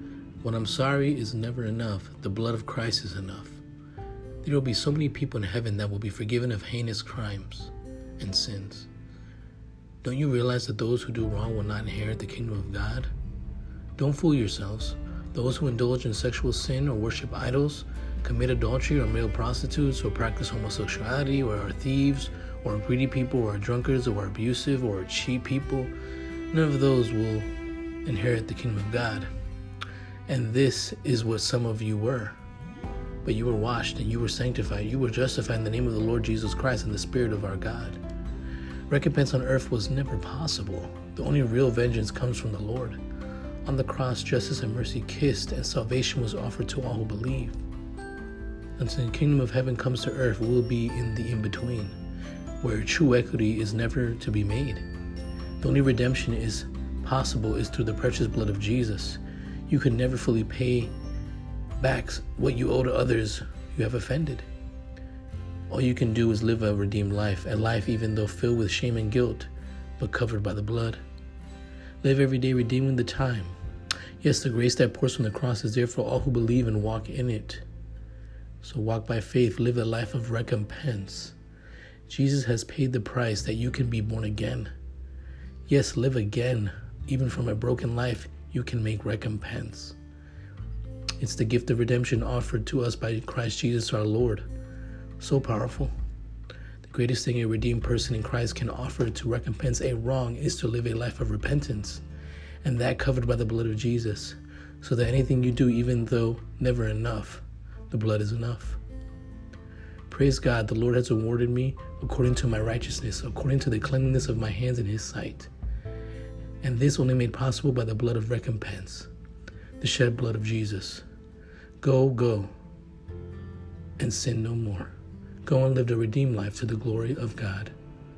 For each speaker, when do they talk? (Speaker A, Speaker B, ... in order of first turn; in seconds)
Speaker A: 0.4-3.6, 4.4-8.9, 10.0-13.1, 14.0-25.9, 26.5-27.5, 28.0-29.3, 30.3-32.4, 33.2-38.0, 38.9-43.0, 43.6-47.6, 48.8-52.0, 52.6-54.8, 55.6-60.9, 61.8-64.5, 65.7-71.0, 72.0-73.5, 74.2-77.6, 78.6-81.3, 82.1-84.7, 85.7-90.0, 91.2-94.5, 95.2-95.9, 96.8-102.0, 102.6-108.8, 110.1-115.5, 116.6-119.1, 119.8-121.0, 121.8-122.5, 124.0-124.9, 125.4-127.7